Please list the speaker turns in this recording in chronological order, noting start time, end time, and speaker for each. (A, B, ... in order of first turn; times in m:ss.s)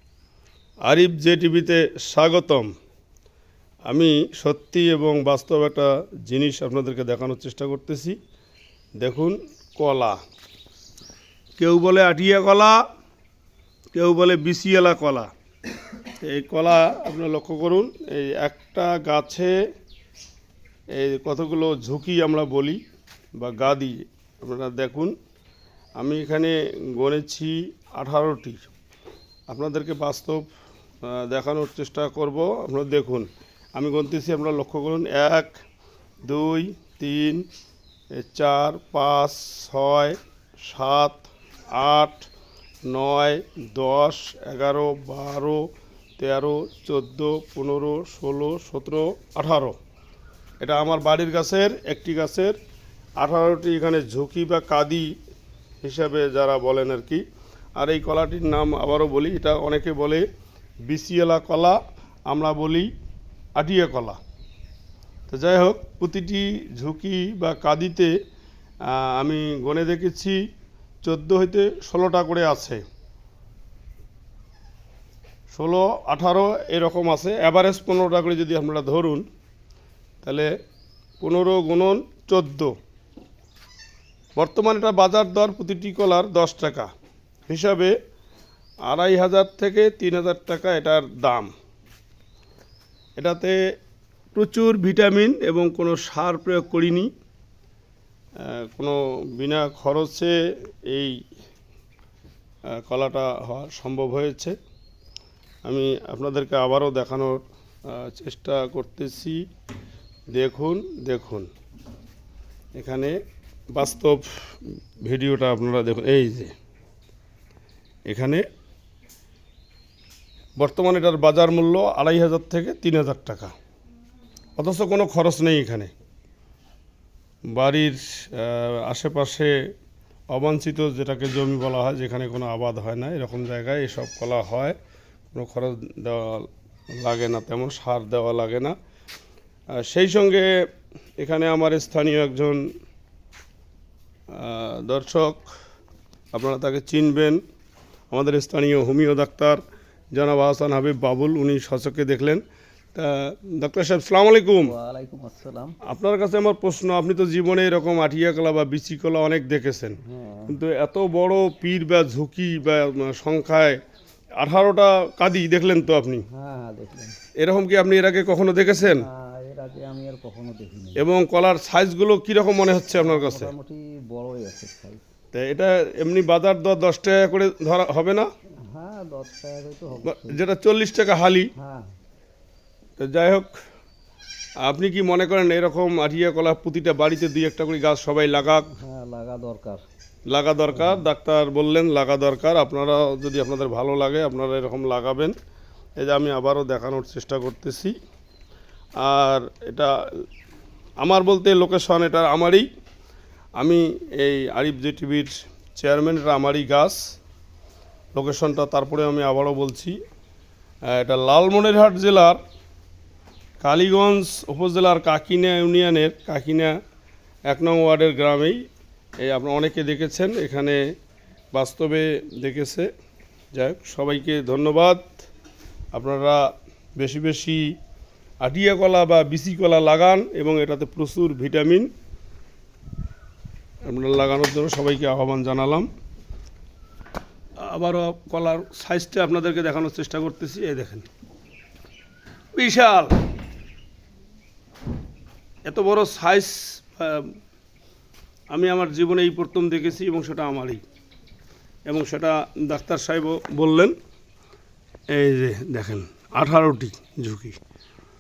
0:00.8-0:02.6 A
0:03.9-0:08.2 A
0:09.0-0:10.2 A
0:11.6-0:12.8 A
0:13.9-0:15.3 A
0:16.2-0:19.5 A
0:20.9-0:22.8 A
0:23.4-0:25.1 A
0:26.0-0:28.7 A
0:29.5-0:30.4 A
0:31.0-0:35.6 A
0:36.2-0:37.4 A
0:38.2-0:42.2 A
0:42.9-0:45.6 A
0:46.2-0:49.7 A
0:50.6-0:52.6 A
0:53.2-0:55.1 A
0:55.8-0:57.2 A
0:57.8-1:00.2 A
1:00.9-1:01.8 A
1:02.3-1:02.9 A
1:03.6-1:04.2 A
1:05.3-1:08.1 A
1:08.9-1:10.4 A
1:11.0-1:12.8 A
1:15.5-1:19.2 A
1:20.2-1:20.5 A
1:21.2-1:22.7 A
1:24.4-1:26.9 A
1:27.5-1:27.9 A
1:28.9-1:31.5 A
1:33.2-1:33.6 A
1:34.3-1:37.1 A
1:38.5-1:40.3 A
1:40.9-1:41.2 A
1:42.8-1:44.5 A
1:45.7-1:49.4 A
1:50.3-1:51.5 A
1:52.7-1:53.2 A
1:53.7-1:54.2 A
1:55.0-1:56.5 A
1:58.1-1:58.4 A
2:00.6-2:03.5 A
2:04.6-2:05.9 A
2:07.5-2:09.5 A
2:10.3-2:14.7 A
2:15.3-2:16.4 A
2:17.0-2:18.7 A
2:19.8-2:20.5 A
2:21.2-2:22.6 A
2:24.3-2:25.5 A
2:26.3-2:27.4 A
2:28.1-2:29.6 A
2:30.1-2:32.4 A
2:32.9-2:34.7 A
2:34.6-2:35.8 B
2:35.9-2:43.8 A
2:40.0-2:40.5 B
2:44.4-2:46.2 A
2:46.3-2:47.1 B
2:47.4-2:49.0 A
2:48.8-2:51.0 B
2:51.0-2:53.5 A
2:52.9-2:55.0 B
2:55.3-2:58.2 A
2:58.7-3:00.4 B
3:00.1-3:01.5 A
3:01.6-3:01.9 B
3:03.0-3:03.5 A
3:04.6-3:08.7 A
3:08.8-3:09.8 B
3:10.3-3:15.3 A
3:10.7-3:11.0 B
3:16.0-3:17.9 A
3:19.0-3:19.9 A
3:21.0-3:22.6 A
3:23.6-3:27.0 A
3:28.1-3:29.9 A
3:30.9-3:32.4 A
3:33.6-3:36.7 A
3:37.5-3:38.6 A
3:39.2-3:40.8 A
3:41.5-3:42.9 A
3:43.5-3:45.1 A
3:45.9-3:46.4 A
3:47.0-3:47.6 A
3:48.4-3:51.9 A
3:53.8-3:55.9 A
3:57.6-4:01.1 A
4:02.6-4:03.2 A
4:05.6-4:07.3 A
4:08.5-4:10.8 A
4:11.9-4:13.9 A
4:15.1-4:17.6 A